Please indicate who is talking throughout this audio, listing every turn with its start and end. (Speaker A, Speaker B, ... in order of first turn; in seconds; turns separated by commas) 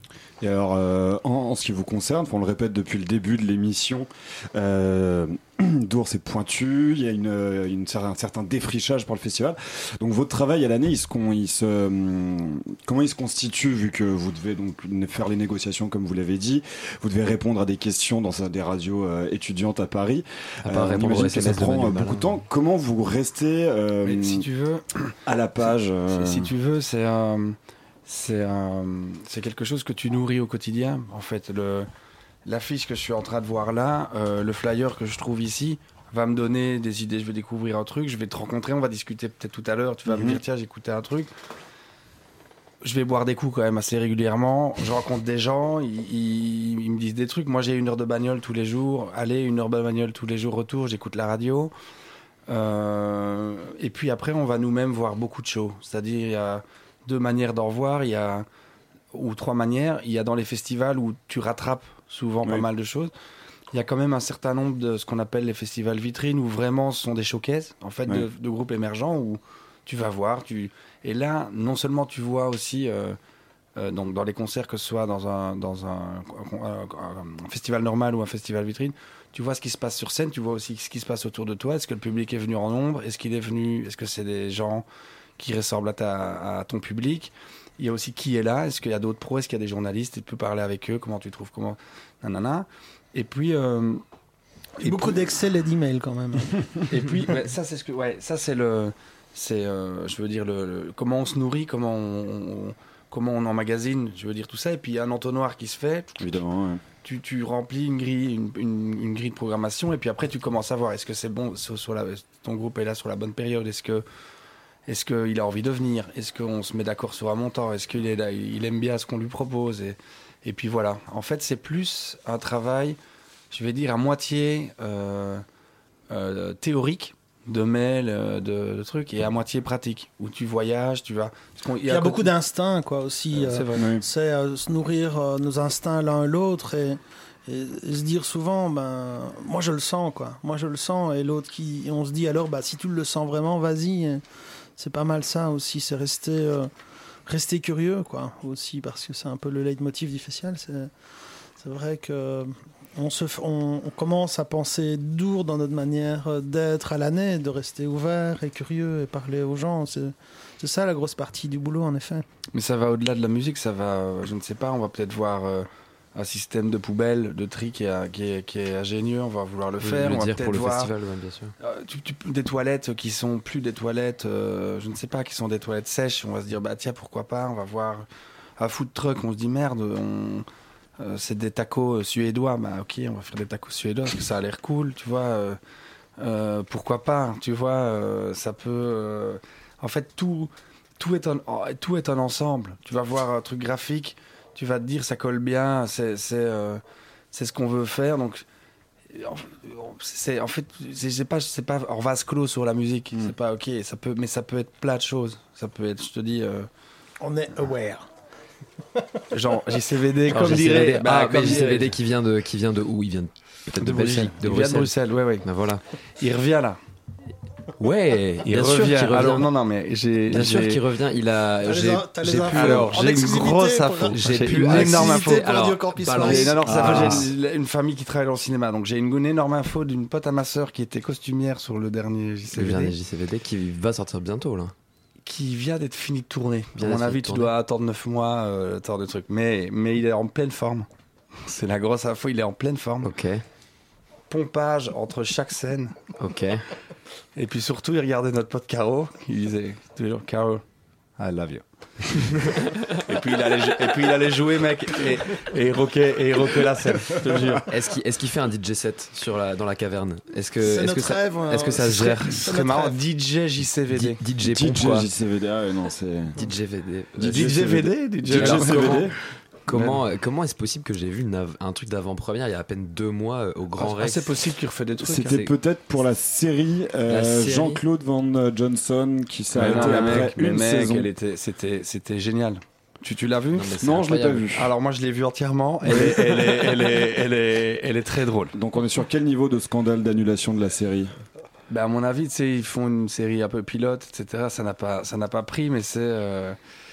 Speaker A: 0.4-24.5, Speaker B: 20.6-22.4, Speaker C: 24.0-25.1, Speaker A: 25.2-26.5, Speaker C: 26.1-31.9, Speaker C: 32.5-41.3, Speaker A: 40.1-40.4, Speaker C: 42.8-51.7, Speaker C: 52.5-58.5, Speaker C: 59.1-63.1, Speaker C: 63.7-73.2, Speaker C: 73.8-84.9, Speaker C: 85.4-94.0, Speaker C: 94.8-95.3, Speaker D: 94.8-96.6, Speaker C: 96.9-106.3, Speaker A: 106.2-106.8, Speaker C: 107.0-114.0, Speaker C: 114.9-123.0, Speaker C: 123.5-125.5, Speaker C: 126.1-132.3, Speaker D: 131.8-144.2, Speaker C: 133.3-133.9, Speaker A: 133.8-134.0, Speaker D: 144.8-146.7, Speaker D: 147.3-150.9, Speaker D: 151.6-162.2, Speaker C: 162.5-170.9, Speaker B: 169.8-171.6, Speaker C: 171.6-178.1, Speaker C: 178.6-180.5, Speaker C: 181.0-185.6, Speaker C: 186.2-198.4, Speaker C: 199.1-206.7, Speaker D: 207.2-208.1, Speaker C: 209.3-211.9, Speaker B: 210.3-215.8, Speaker C: 213.8-215.5, Speaker C: 216.2-216.8, Speaker B: 217.8-219.5, Speaker C: 218.4-220.8, Speaker B: 220.3-222.9, Speaker D: 221.7-226.6, Speaker C: 222.5-225.5, Speaker B: 224.1-227.3, Speaker C: 226.1-232.9, Speaker A: 226.6-227.3, Speaker B: 232.5-234.7, Speaker C: 235.2-240.9, Speaker B: 236.8-237.5, Speaker C: 241.4-243.1, Speaker B: 243.0-243.4, Speaker C: 244.3-246.0, Speaker B: 246.2-246.7, Speaker C: 247.3-250.6, Speaker C: 251.2-257.7, Speaker A: 257.3-257.6, Speaker B: 257.7-262.4, Speaker D: 260.6-263.0, Speaker C: 261.9-264.2, Speaker B: 263.9-265.1, Speaker A: 264.4-266.4, Speaker B: 266.4-267.7, Speaker A: 267.2-269.2, Speaker C: 267.2-269.1, Speaker B: 268.3-269.1, Speaker B: 269.7-275.5, Speaker C: 273.8-275.4, Speaker A: 275.0-281.1, Speaker B: 277.1-277.8, Speaker C: 279.5-283.9, Speaker B: 279.5-280.3, Speaker B: 283.5-284.5, Speaker A: 283.8-284.7, Speaker C: 284.5-288.6, Speaker A: 285.9-286.8, Speaker A: 288.5-291.2, Speaker C: 291.7-296.6